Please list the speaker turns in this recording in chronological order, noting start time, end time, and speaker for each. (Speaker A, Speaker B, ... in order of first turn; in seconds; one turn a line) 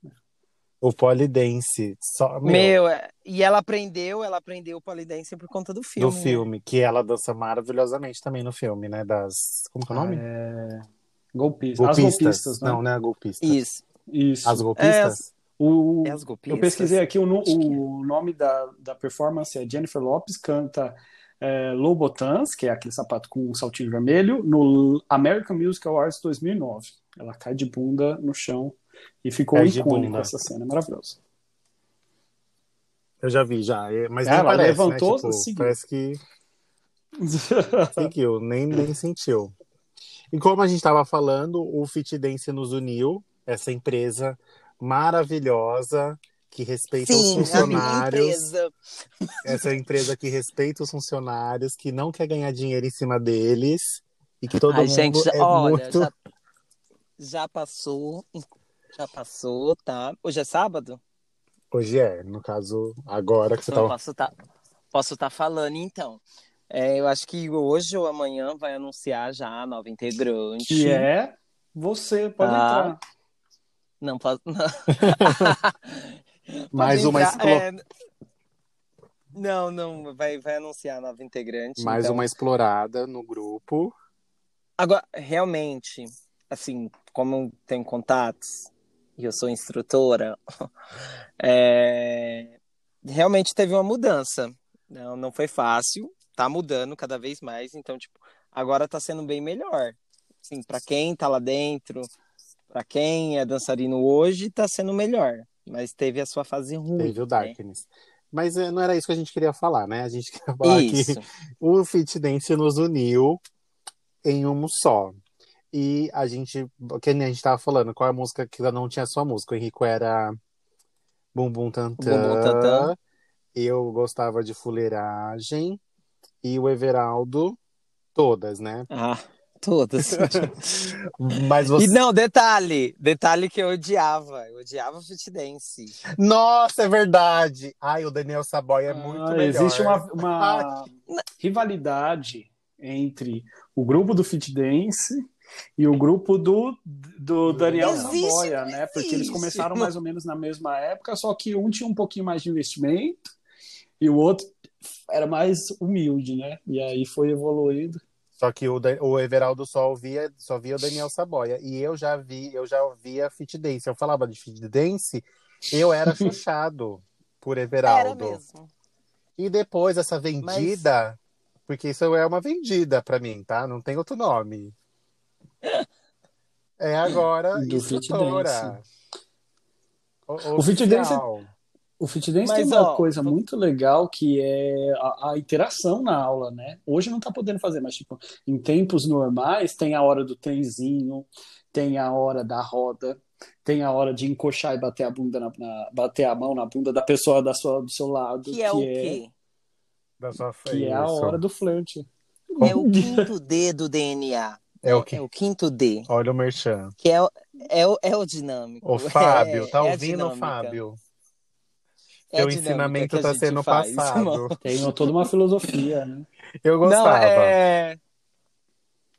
Speaker A: 0.8-2.8
Speaker B: 2.4-6.4
Speaker A: 6.0-10.2
Speaker C: 9.9-12.8
Speaker A: 11.8-13.6
Speaker B: 13.4-13.8
Speaker C: 14.1-14.7
Speaker A: 14.4-15.3
Speaker B: 14.8-15.2
Speaker C: 15.6-31.2
Speaker B: 16.0-17.1
Speaker A: 29.5-30.3
Speaker A: 33.2-36.2
Speaker C: 34.2-35.8
Speaker C: 37.2-38.1
Speaker A: 38.0-39.5
Speaker A: 40.3-48.4
Speaker B: 47.0-48.7
Speaker C: 47.4-47.9
Speaker B: 49.2-49.7
Speaker A: 49.5-56.1
Speaker B: 54.7-56.1
Speaker B: 57.2-58.4
Speaker B: 59.0-61.0
Speaker A: 61.7-63.9
Speaker B: 63.7-64.3
Speaker B: 64.9-71.1
Speaker C: 70.7-73.0
Speaker B: 72.4-73.0
Speaker B: 74.0-77.8
Speaker A: 75.0-75.5
Speaker A: 76.7-77.7
Speaker B: 79.3-82.3
Speaker A: 81.8-83.9
Speaker B: 84.8-90.4
Speaker B: 91.4-102.1
Speaker B: 102.7-107.5
Speaker A: 107.0-113.4
Speaker B: 110.6-111.2
Speaker A: 114.2-115.2
Speaker A: 115.7-120.4
Speaker A: 121.3-123.0
Speaker B: 122.0-122.9
Speaker A: 123.5-125.8
Speaker A: 126.4-127.6
Speaker A: 128.2-128.9
Speaker B: 128.9-130.9
Speaker A: 130.0-132.0
Speaker B: 131.8-136.0
Speaker A: 136.1-140.7
Speaker C: 138.9-145.2
Speaker C: 145.8-153.3
Speaker A: 147.4-148.2
Speaker B: 147.8-149.9
Speaker C: 154.0-158.0
Speaker A: 158.4-168.4
Speaker B: 167.8-168.7
Speaker A: 169.4-174.7
Speaker B: 170.4-170.8
Speaker A: 176.8-178.8
Speaker C: 177.5-178.8
Speaker A: 180.3-181.5
Speaker C: 180.6-181.2
Speaker C: 182.0-199.2
Speaker B: 182.4-183.3
Speaker B: 198.5-199.3
Speaker A: 200.2-201.4
Speaker C: 200.7-203.3
Speaker B: 202.6-206.1
Speaker A: 204.8-205.2
Speaker A: 206.1-206.9
Speaker B: 207.0-210.8
Speaker A: 208.8-211.0
Speaker B: 212.3-214.6
Speaker A: 212.3-214.5
Speaker C: 214.6-216.3
Speaker A: 216.6-217.6
Speaker B: 216.8-218.0